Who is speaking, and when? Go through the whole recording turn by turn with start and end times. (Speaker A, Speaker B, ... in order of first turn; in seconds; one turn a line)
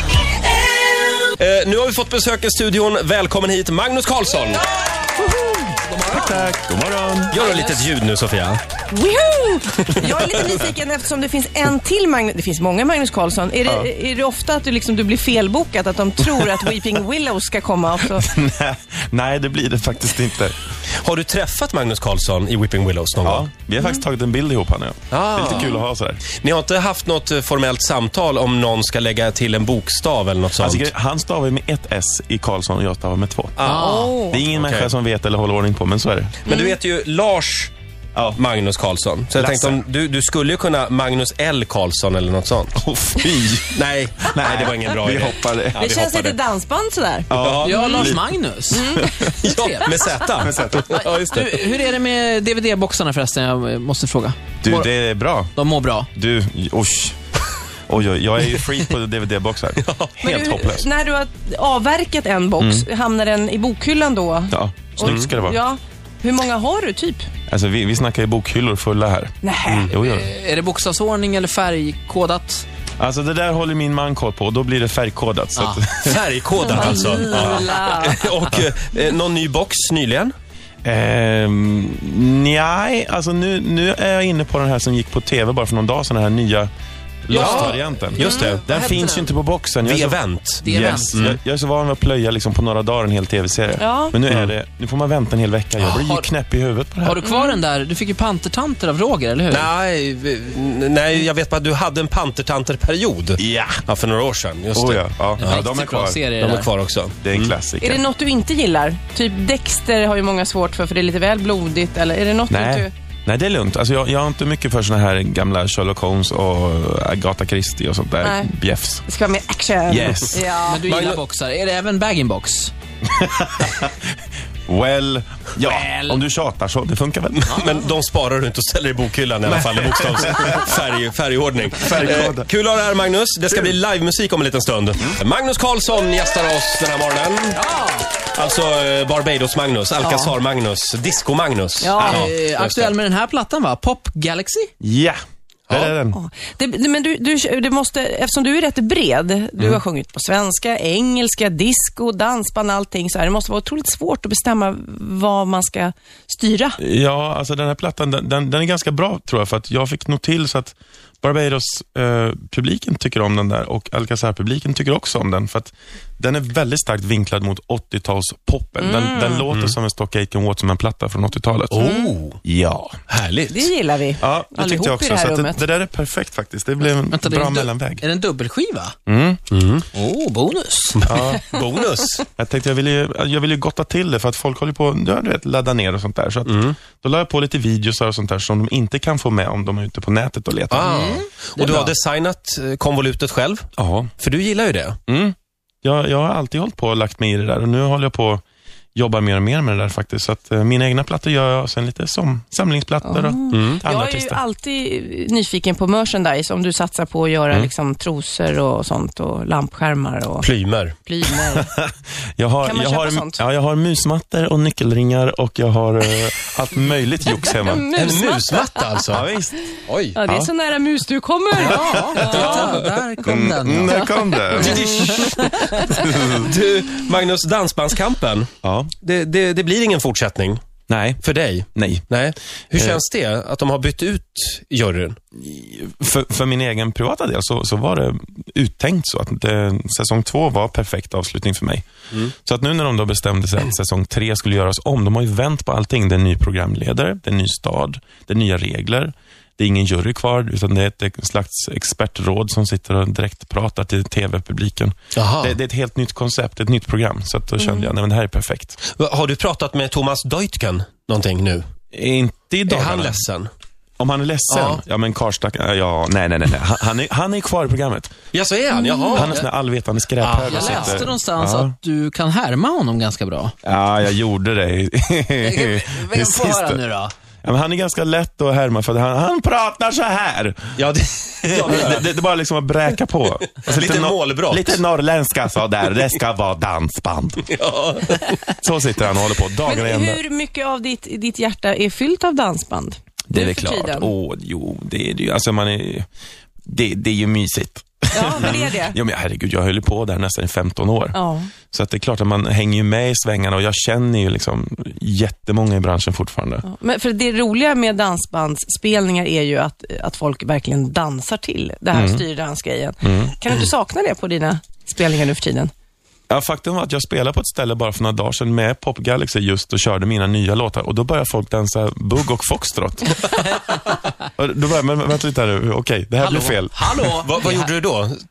Speaker A: 1.2-4.6
Speaker B: 4.8-5.3
Speaker B: 5.8-6.5
Speaker C: 6.0-7.4
Speaker A: 7.3-8.6
Speaker B: 7.3-7.9
Speaker D: 8.9-18.3
Speaker A: 9.9-10.6
Speaker C: 13.6-13.9
Speaker C: 18.0-20.6
Speaker A: 20.9-23.5
Speaker C: 23.2-26.2
Speaker D: 23.8-24.0
Speaker A: 25.1-25.7
Speaker D: 25.5-25.8
Speaker A: 26.3-30.9
Speaker C: 30.6-33.6
Speaker A: 33.6-34.9
Speaker B: 33.6-34.1
Speaker D: 33.8-34.4
Speaker C: 34.3-36.5
Speaker A: 36.5-37.7
Speaker D: 36.5-36.8
Speaker A: 38.4-42.8
Speaker C: 39.3-39.8
Speaker C: 42.8-46.4
Speaker A: 43.7-46.0
Speaker D: 45.8-48.1
Speaker C: 47.3-49.3
Speaker A: 47.3-47.9
Speaker B: 47.6-50.0
Speaker D: 48.7-50.1
Speaker A: 49.4-51.8
Speaker C: 50.4-50.9
Speaker B: 50.9-54.9
Speaker C: 54.6-55.6
Speaker B: 55.5-56.1
Speaker C: 56.1-57.2
Speaker C: 57.9-60.9
Speaker A: 59.8-60.1
Speaker D: 60.2-67.3
Speaker C: 62.6-62.9
Speaker C: 64.5-65.6
Speaker A: 65.0-65.3
Speaker C: 67.5-69.3
Speaker D: 69.4-69.9
Speaker A: 69.7-69.9
Speaker C: 69.9-70.3
Speaker B: 70.0-72.6
Speaker C: 73.0-76.2
Speaker B: 75.6-75.8
Speaker A: 76.0-80.3
Speaker D: 76.6-78.2
Speaker C: 80.8-86.7
Speaker C: 87.2-97.2
Speaker B: 87.3-87.8
Speaker A: 87.3-88.7
Speaker D: 88.2-88.6
Speaker B: 88.3-89.4
Speaker A: 89.8-91.4
Speaker B: 90.6-91.2
Speaker D: 93.8-94.2
Speaker B: 95.8-96.3
Speaker B: 97.0-99.7
Speaker D: 97.2-97.6
Speaker A: 99.5-105.6
Speaker C: 103.4-103.8
Speaker C: 104.7-106.2
Speaker B: 105.4-106.7
Speaker A: 106.4-107.5
Speaker C: 107.2-108.0
Speaker D: 107.8-112.9
Speaker C: 112.5-119.0
Speaker D: 118.2-118.5
Speaker D: 119.0-120.8
Speaker C: 119.9-121.2
Speaker B: 120.6-122.7
Speaker C: 123.0-127.6
Speaker B: 125.6-126.2
Speaker A: 127.3-137.6
Speaker B: 127.5-127.9
Speaker C: 129.5-130.6
Speaker C: 131.8-132.5
Speaker B: 137.5-138.1
Speaker A: 138.2-142.9
Speaker D: 140.0-140.3
Speaker B: 141.8-144.7
Speaker C: 142.0-142.3
Speaker C: 144.8-146.2
Speaker D: 146.1-156.8
Speaker C: 156.8-171.9
Speaker D: 168.8-169.5
Speaker A: 169.5-169.8
Speaker A: 171.7-172.4
Speaker D: 171.8-172.1
Speaker C: 172.4-173.0
Speaker A: 173.1-173.7
Speaker D: 173.5-175.6
Speaker C: 174.2-178.0
Speaker B: 177.1-178.9
Speaker C: 179.1-179.4
Speaker A: 179.5-179.9
Speaker B: 179.9-181.1
Speaker A: 181.0-182.2
Speaker C: 181.1-181.5
Speaker C: 182.3-190.9
Speaker A: 186.5-186.8
Speaker A: 190.7-195.0
Speaker B: 190.8-191.9
Speaker C: 193.8-194.1
Speaker C: 195.1-198.4
Speaker C: 198.9-204.4
Speaker D: 203.0-210.5
Speaker A: 203.5-203.8
Speaker A: 210.4-210.9
Speaker D: 211.0-211.7
Speaker C: 211.5-218.0
Speaker D: 212.6-213.4
Speaker D: 217.5-218.9
Speaker A: 217.9-219.2
Speaker C: 219.1-219.6
Speaker A: 219.9-220.1
Speaker D: 220.1-222.6
Speaker C: 220.2-220.5
Speaker B: 221.6-224.3
Speaker A: 221.6-222.9
Speaker C: 222.0-222.4
Speaker C: 223.2-226.5
Speaker D: 224.0-225.9
Speaker A: 224.5-228.5
Speaker B: 225.2-225.7
Speaker C: 228.6-228.9
Speaker A: 229.0-230.6
Speaker C: 230.9-232.1
Speaker A: 231.2-235.2
Speaker C: 232.7-233.0
Speaker C: 235.3-258.8
Speaker A: 255.2-255.6
Speaker D: 257.6-257.9
Speaker A: 258.9-261.6
Speaker C: 261.9-263.2
Speaker A: 262.7-263.5
Speaker C: 264.0-268.1
Speaker A: 264.5-264.8
Speaker A: 268.3-269.4
Speaker D: 268.7-269.2
Speaker C: 269.1-271.7
Speaker A: 270.2-271.1
Speaker B: 270.5-273.5
Speaker C: 273.6-276.8
Speaker B: 275.4-277.1
Speaker C: 277.4-280.8
Speaker A: 280.8-282.1
Speaker C: 281.4-287.5
Speaker A: 283.6-284.8
Speaker A: 287.5-288.4
Speaker C: 288.5-290.2
Speaker D: 289.6-294.1
Speaker C: 293.3-296.1
Speaker C: 296.6-306.6
Speaker D: 298.1-299.0
Speaker D: 301.1-301.5
Speaker D: 306.6-315.7
Speaker C: 311.9-312.2
Speaker C: 313.0-313.3
Speaker C: 316.3-323.4
Speaker C: 324.4-327.1
Speaker B: 326.2-327.6
Speaker A: 327.2-328.2